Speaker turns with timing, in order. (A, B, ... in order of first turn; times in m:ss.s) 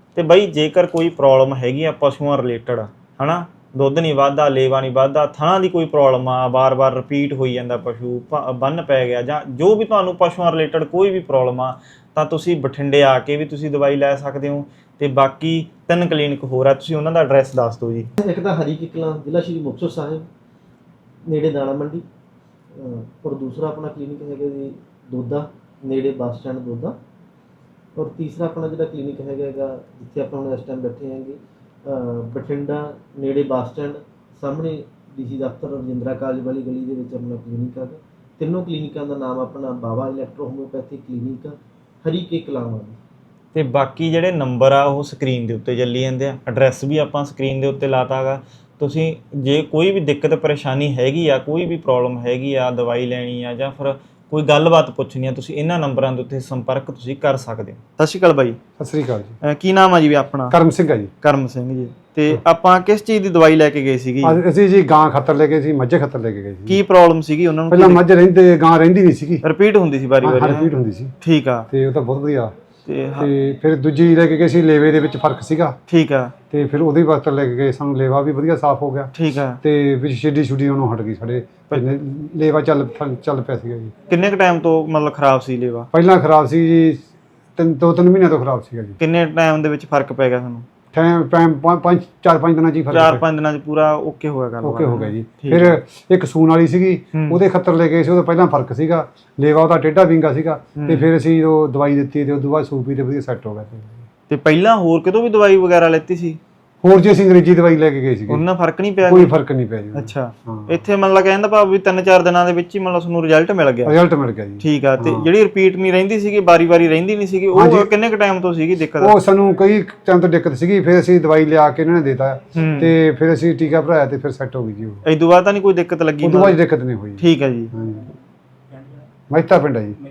0:00.1-0:18.1 A
0:18.2-0:20.2 B
0:21.3-0:22.0 B
0:22.8-0:26.9 B
0:28.0-0:43.0 B
0:43.5-0:58.6 A
0:58.8-0:59.4 C
0:59.4-1:00.6 A
1:00.5-1:01.1 C
1:01.2-1:04.4 A
1:04.2-1:06.8 C
1:06.7-1:08.0 A
1:07.7-1:09.4 C
1:09.4-1:10.7 A
1:10.2-1:11.1 C
1:11.2-1:11.7 A
1:11.7-1:12.5 C
1:12.8-1:13.3 A
1:13.2-1:15.8 C
1:15.9-1:16.3 A
1:16.5-1:23.9 C
1:19.1-1:19.6 A
1:24.1-1:25.9 A
1:25.9-1:29.0 C
1:29.0-1:30.6 A
1:30.9-1:33.2 C
1:32.9-1:35.8 A
1:34.6-1:44.0 C
1:37.1-1:37.4 A
1:40.8-1:41.1 A
1:44.3-1:46.4 A
1:46.8-1:48.4 C
1:48.3-1:49.3 A
1:49.0-1:50.8 C
1:49.9-1:53.9 A
1:53.8-1:55.3 C
1:54.6-1:59.1 A
1:57.5-1:57.9 C
1:59.0-2:05.0 C
2:02.5-2:02.9 A
2:05.0-2:06.6 A
2:06.2-2:08.1 C
2:07.2-2:07.7 A
2:09.3-2:10.0 C